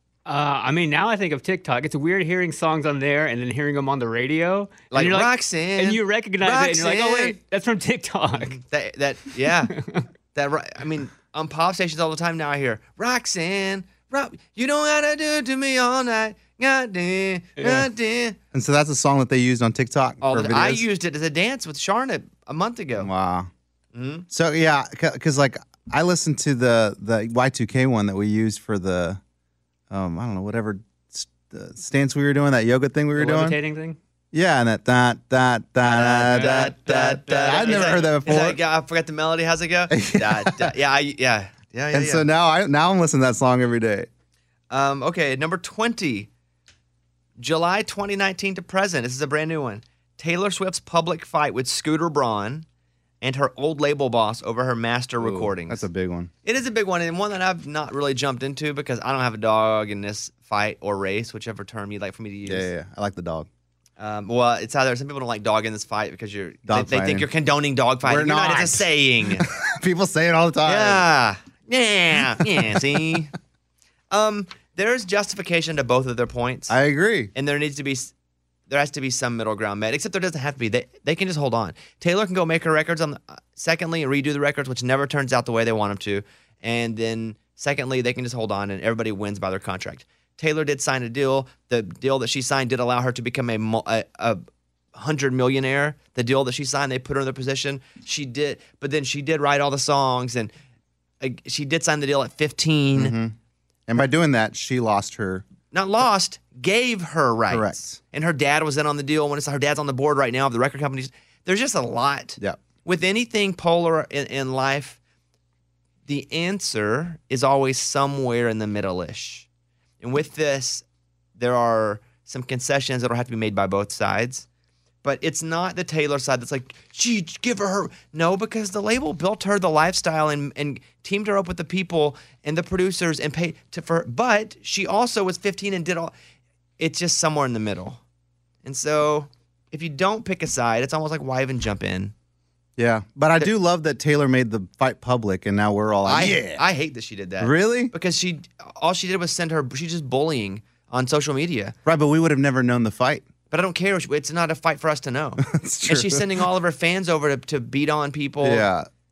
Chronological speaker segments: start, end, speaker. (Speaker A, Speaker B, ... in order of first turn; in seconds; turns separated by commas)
Speaker A: 0.3-8.6, Speaker B: 4.9-7.4, Speaker B: 8.3-9.7, Speaker A: 9.4-10.1, Speaker B: 10.3-18.4, Speaker A: 17.6-17.9, Speaker C: 18.5-20.9, Speaker B: 20.2-23.1, Speaker C: 23.0-23.5, Speaker B: 23.9-24.3, Speaker C: 24.3-29.2, Speaker C: 29.9-33.6, Speaker A: 33.2-34.0, Speaker C: 34.3-38.6, Speaker A: 35.9-38.1, Speaker B: 36.0-42.3, Speaker C: 39.9-40.7, Speaker C: 41.9-44.1, Speaker B: 44.7-46.3, Speaker B: 47.4-52.7, Speaker B: 53.2-55.9, Speaker C: 55.2-56.3, Speaker B: 56.4-62.7, Speaker C: 62.5-63.5, Speaker B: 64.0-69.5, Speaker C: 66.7-67.3, Speaker C: 68.0-71.1, Speaker B: 70.7-73.3, Speaker C: 72.4-73.0, Speaker B: 74.1-76.8, Speaker C: 76.7-77.3, Speaker B: 77.3-78.1, Speaker B: 78.7-94.4, Speaker B: 95.0-100.5, Speaker B: 101.2-103.2, Speaker C: 103.0-103.4, Speaker C: 103.9-105.4, Speaker B: 105.7-115.0, Speaker C: 107.5-108.0, Speaker B: 116.1-119.5, Speaker B: 120.0-120.8, Speaker B: 121.4-124.5, Speaker B: 125.0-136.1, Speaker B: 136.8-138.0, Speaker B: 138.6-142.1, Speaker C: 142.8-146.6, Speaker B: 146.1-151.8, Speaker C: 147.4-147.9, Speaker C: 151.9-153.2, Speaker B: 153.5-158.7, Speaker C: 155.4-156.4, Speaker C: 158.4-158.9